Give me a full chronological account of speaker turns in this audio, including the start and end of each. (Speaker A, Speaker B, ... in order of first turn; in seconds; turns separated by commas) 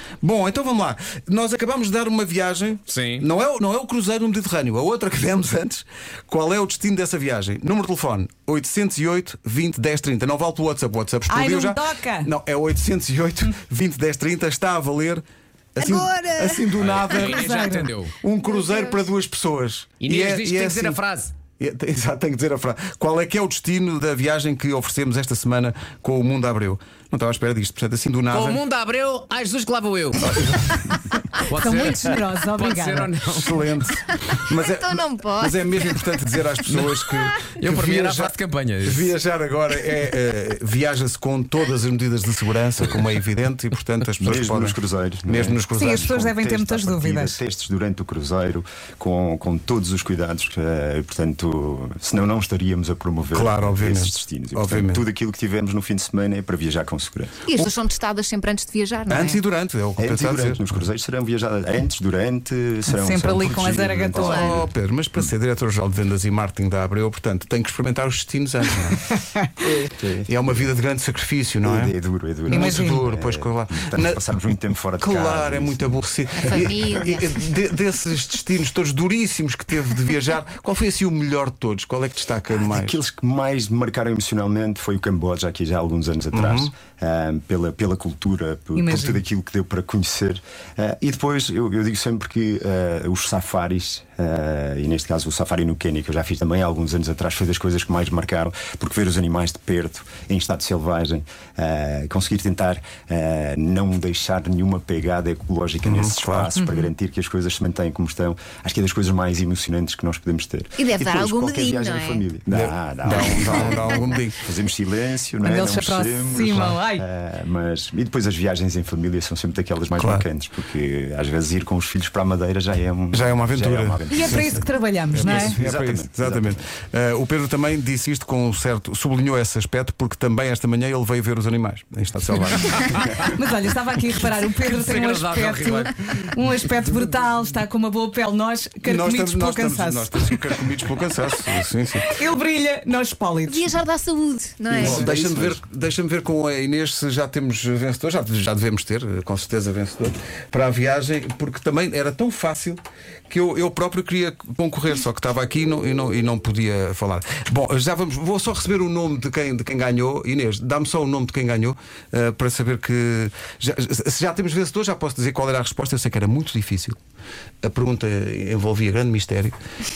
Speaker A: 0.2-15.2, Speaker B: 2.9-3.3, Speaker C: 11.3-12.3, Speaker A: 15.7-21.0, Speaker D: 15.8-17.2, Speaker B: 16.8-18.1, Speaker C: 17.2-17.9, Speaker D: 18.4-19.0, Speaker B: 20.0-21.3, Speaker A: 21.6-28.6, Speaker B: 28.3-30.8, Speaker A: 30.2-30.9, Speaker B: 31.3-33.6, Speaker C: 31.5-33.1, Speaker A: 33.3-46.1, Speaker D: 34.5-36.0, Speaker B: 36.7-37.0, Speaker B: 37.6-39.1, Speaker E: 44.2-57.4, Speaker C: 45.7-47.4, Speaker A: 53.3-55.1, Speaker D: 57.5-59.4, Speaker A: 59.1-60.8, Speaker E: 60.0-64.7, Speaker C: 62.9-64.5, Speaker A: 64.1-69.0, Speaker D: 64.2-64.6, Speaker E: 69.7-70.3, Speaker A: 70.3-71.9, Speaker E: 71.6-75.9, Speaker A: 72.5-74.2, Speaker C: 72.5-73.0, Speaker A: 75.0-83.0, Speaker D: 76.4-77.3, Speaker E: 82.5-126.6, Speaker A: 86.3-86.7, Speaker C: 88.8-89.2, Speaker A: 105.8-106.5, Speaker D: 106.6-106.9, Speaker D: 110.8-112.2, Speaker A: 112.5-114.4, Speaker C: 115.4-117.0, Speaker A: 119.9-120.2, Speaker A: 123.1-124.6, Speaker C: 124.1-125.6, Speaker A: 125.1-133.3, Speaker B: 132.7-133.1, Speaker C: 133.2-141.4, Speaker B: 134.6-135.9, Speaker A: 138.8-142.2, Speaker C: 142.0-143.7, Speaker D: 143.4-145.1, Speaker E: 144.7-145.6, Speaker A: 144.7-167.0, Speaker A: 167.6-169.6